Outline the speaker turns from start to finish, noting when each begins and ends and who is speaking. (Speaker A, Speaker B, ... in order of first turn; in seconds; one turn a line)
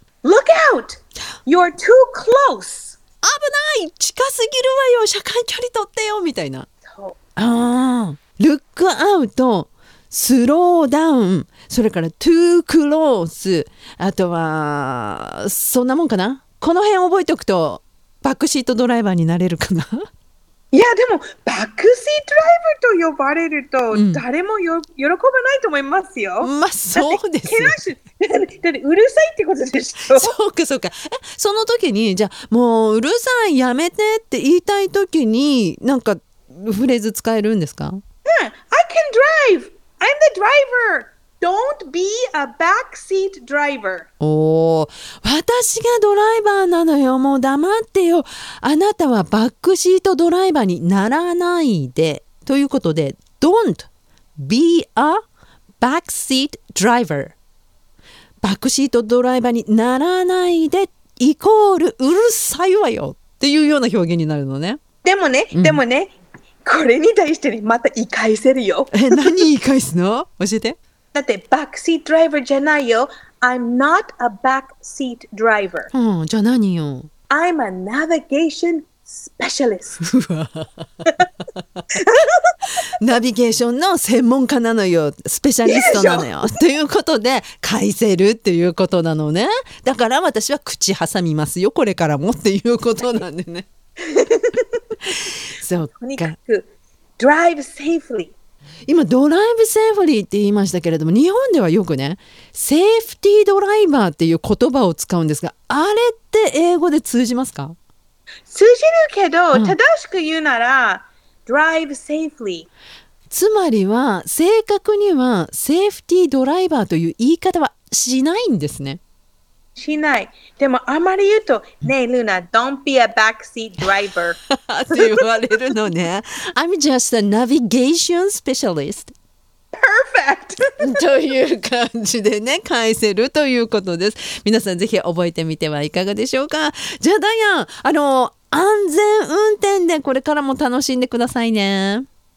Speaker A: 0.2-3.0
Speaker B: 3.2-6.7
Speaker A: 6.9-7.2
Speaker B: 7.4-20.1
Speaker A: 20.7-30.3
Speaker B: 23.9-24.2
Speaker B: 26.4-27.8
Speaker B: 30.1-38.0
Speaker A: 38.3-44.1
Speaker B: 44.2-55.2
Speaker B: 55.8-57.3
Speaker B: 58.4-64.8
Speaker A: 65.0-66.1
Speaker B: 65.5-65.8
Speaker A: 66.6-69.4
Speaker B: 68.9-70.8
Speaker A: 71.1-75.9
Speaker B: 75.9-77.1
Speaker A: 77.3-80.0
Speaker B: 80.0-81.1
Speaker A: 81.9-82.5
Speaker B: 83.0-93.7
Speaker A: 85.7-86.3
Speaker A: 94.0-94.8
Speaker B: 95.1-96.3
Speaker A: 95.8-98.3
Speaker B: 98.9-107.8
Speaker A: 108.5-112.7
Speaker B: 113.3-119.0
Speaker A: 119.8-124.4
Speaker B: 124.5-129.1
Speaker A: 124.9-125.2
Speaker A: 129.7-131.0
Speaker B: 130.8-142.1